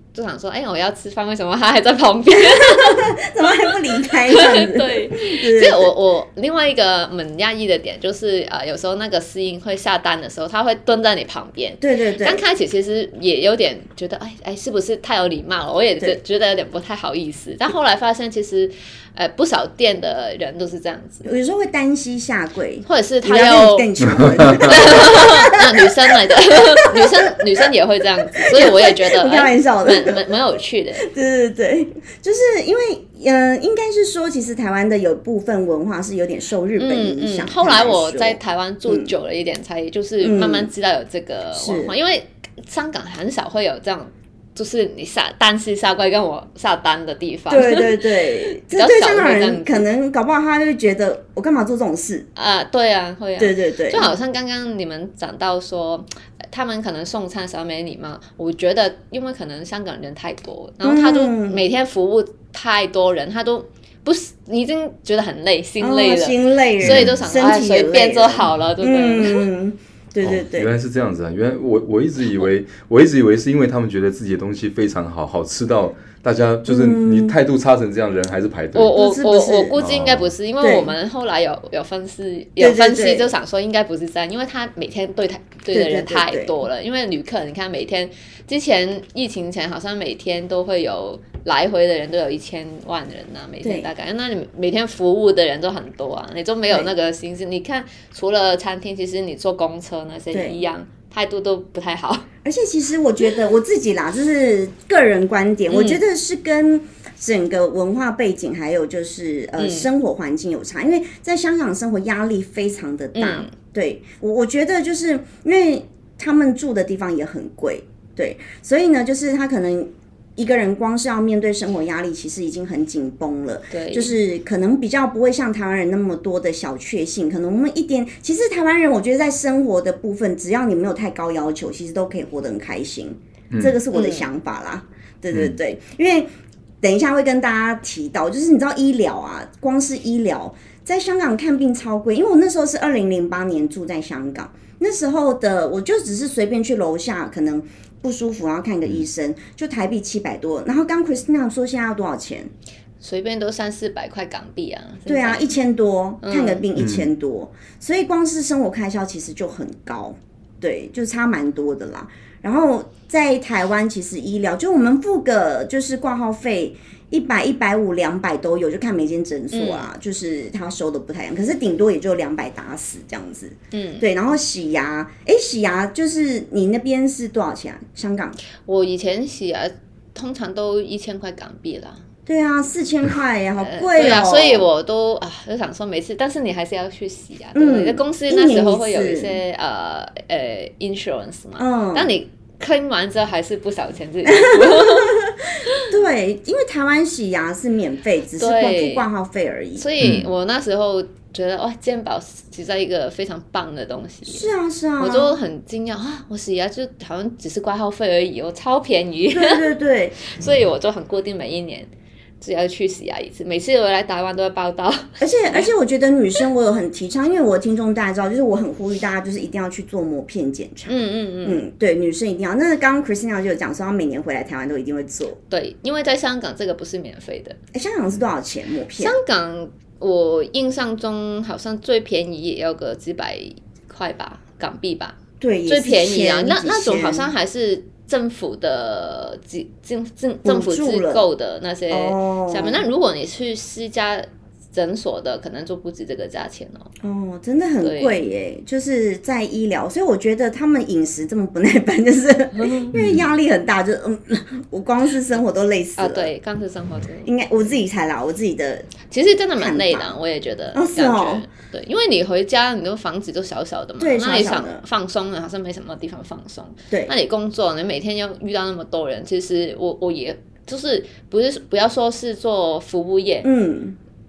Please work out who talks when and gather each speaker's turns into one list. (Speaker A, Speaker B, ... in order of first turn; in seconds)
Speaker A: 0.1-21.3, 22.8-31.1, 36.8-49.9, 52.4-69.5, 78.7-102.2, 105.7-106.0, 109.6-109.9, 113.1-113.5, 123.7-124.1, 133.9-134.3, 153.0-155.5, 156.2-156.6, 169.5-169.9, 173.7-174.1, 178.6-182.0, 183.6-195.9, 198.4-199.1, 199.8-209.6, 210.2-215.7, 220.9-221.6, 225.5-227.6, 229.0-246.9, 247.8-248.2, 252.5-252.9, 256.0-257.3, 259.1-273.5
Speaker B: 2.5-5.9, 11.8-12.4, 21.2-27.2, 28.3-30.2, 31.0-39.1, 40.2-40.7, 41.5-41.9, 47.5-52.3, 53.4-54.1, 60.8-61.6, 65.8-70.7, 76.7-77.3, 78.9-79.8, 80.6-80.9, 82.6-83.3, 85.7-86.5, 93.6-93.9, 100.3-100.6, 102.4-136.3, 136.8-152.5, 155.1-178.4, 182.3-184.6, 187.5-189.4, 191.6-192.1, 194.2-199.8, 204.2-205.3, 209.3-210.2, 215.2-225.4, 227.7-229.2, 235.4-237.3, 240.4-241.2, 241.9-242.8, 247.0-256.3, 257.2-258.9, 259.6-260.1, 260.7-261.4, 264.0-264.8, 273.4-274.0
Speaker C: 24.3-24.7, 66.8-67.2, 70.2-79.0, 79.7-80.3, 133.5-133.8, 156.8-157.1, 200.0-200.3, 252.9-253.3